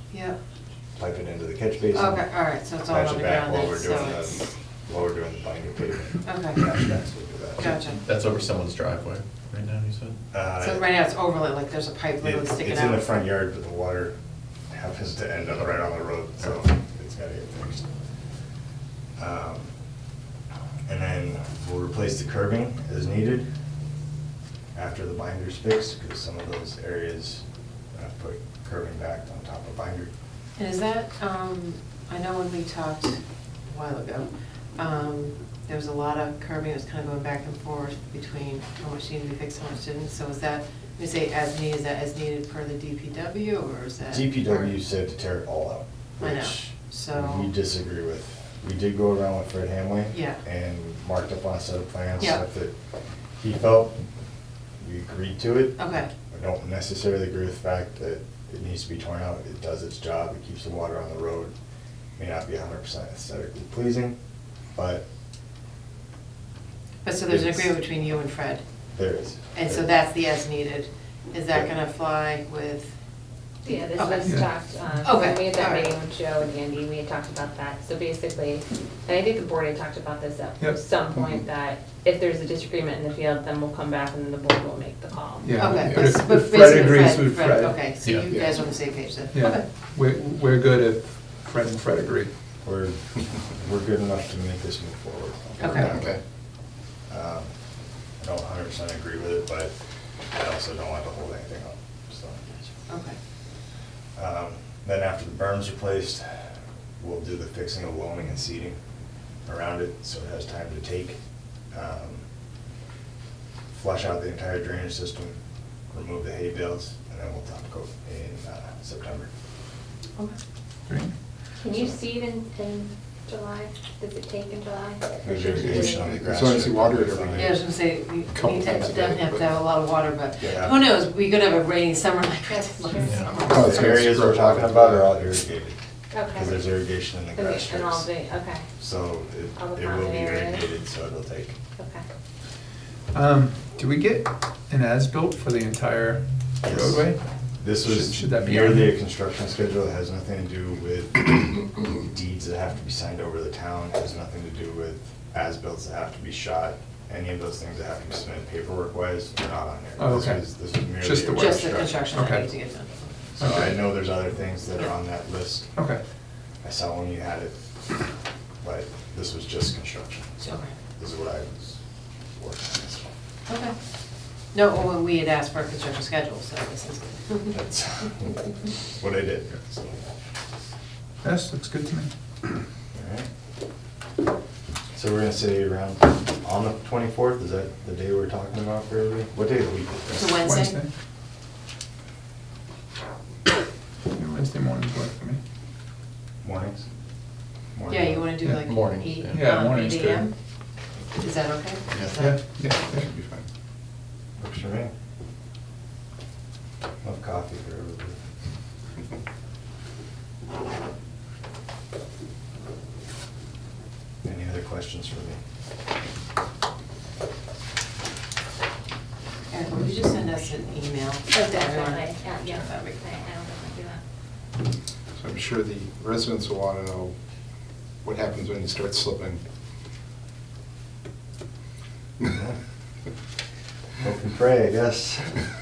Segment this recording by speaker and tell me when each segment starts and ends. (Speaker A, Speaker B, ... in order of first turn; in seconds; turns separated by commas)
Speaker A: 1.0-2.3, Speaker B: 1.9-4.4, Speaker A: 2.9-7.7, Speaker B: 6.2-6.6, Speaker C: 7.6-10.2, Speaker B: 7.6-8.0, Speaker A: 10.3-10.9, Speaker B: 10.6-13.1, Speaker A: 12.2-14.2, Speaker A: 14.7-17.9, Speaker A: 19.2-19.7, Speaker A: 20.9-23.5, Speaker A: 24.8-30.1, Speaker B: 30.6-44.7, Speaker A: 44.1-52.7, Speaker B: 46.2-47.5, Speaker B: 50.1-50.4, Speaker A: 53.4-54.0, Speaker A: 54.8-61.5, Speaker B: 55.8-56.1, Speaker A: 62.2-64.2, Speaker A: 64.8-65.0, Speaker B: 67.0-68.6, Speaker A: 67.3-67.8, Speaker A: 69.0-69.9, Speaker B: 69.5-72.9, Speaker D: 73.7-85.6, Speaker B: 73.7-74.3, Speaker E: 74.2-75.0, Speaker B: 75.0-75.9, Speaker E: 85.4-87.9, Speaker B: 85.6-89.6, Speaker C: 88.0-88.3, Speaker F: 88.3-88.6, Speaker E: 89.3-92.3, Speaker A: 92.6-96.1, Speaker B: 95.6-95.9, Speaker F: 95.8-96.2, Speaker A: 97.1-97.5, Speaker A: 98.2-99.7, Speaker A: 100.3-102.6, Speaker B: 102.9-103.2, Speaker A: 104.2-108.8, Speaker A: 109.5-111.2, Speaker A: 111.7-112.3, Speaker A: 113.7-115.4, Speaker A: 115.9-119.3, Speaker E: 120.9-121.1, Speaker D: 121.6-126.1, Speaker A: 125.2-127.6, Speaker F: 125.5-127.6, Speaker B: 127.4-134.1, Speaker F: 128.3-129.4, Speaker A: 130.4-130.8, Speaker D: 132.9-133.4, Speaker C: 133.1-133.4, Speaker F: 133.5-135.1, Speaker A: 133.5-135.8, Speaker D: 136.1-136.7, Speaker A: 136.3-138.1, Speaker D: 137.3-138.7, Speaker A: 138.8-141.6, Speaker D: 139.6-140.7, Speaker D: 141.8-142.0, Speaker E: 143.1-147.2, Speaker A: 146.6-161.9, Speaker E: 147.8-148.9, Speaker E: 160.0-162.5, Speaker B: 161.3-163.3, Speaker A: 163.4-165.7, Speaker E: 163.4-163.8, Speaker A: 166.6-167.6, Speaker A: 168.6-171.8, Speaker A: 172.3-173.1, Speaker B: 173.5-173.7, Speaker B: 174.5-177.6, Speaker A: 177.5-180.0, Speaker E: 181.2-182.1, Speaker A: 182.9-183.3, Speaker A: 184.9-190.4, Speaker B: 190.1-190.8, Speaker E: 190.4-190.9, Speaker E: 194.1-195.4, Speaker A: 196.4-196.8, Speaker A: 197.8-198.3, Speaker B: 197.9-200.3, Speaker E: 198.4-198.7, Speaker F: 198.7-199.1, Speaker C: 199.1-199.6, Speaker E: 199.3-200.3, Speaker B: 201.2-202.3, Speaker C: 201.9-202.2, Speaker E: 202.2-203.1, Speaker F: 202.6-203.5, Speaker A: 204.4-204.9, Speaker A: 207.0-208.2, Speaker A: 214.2-215.4, Speaker B: 219.5-223.2, Speaker D: 221.3-224.0, Speaker F: 225.2-227.1, Speaker F: 228.0-229.4, Speaker A: 232.2-232.6, Speaker A: 234.0-235.4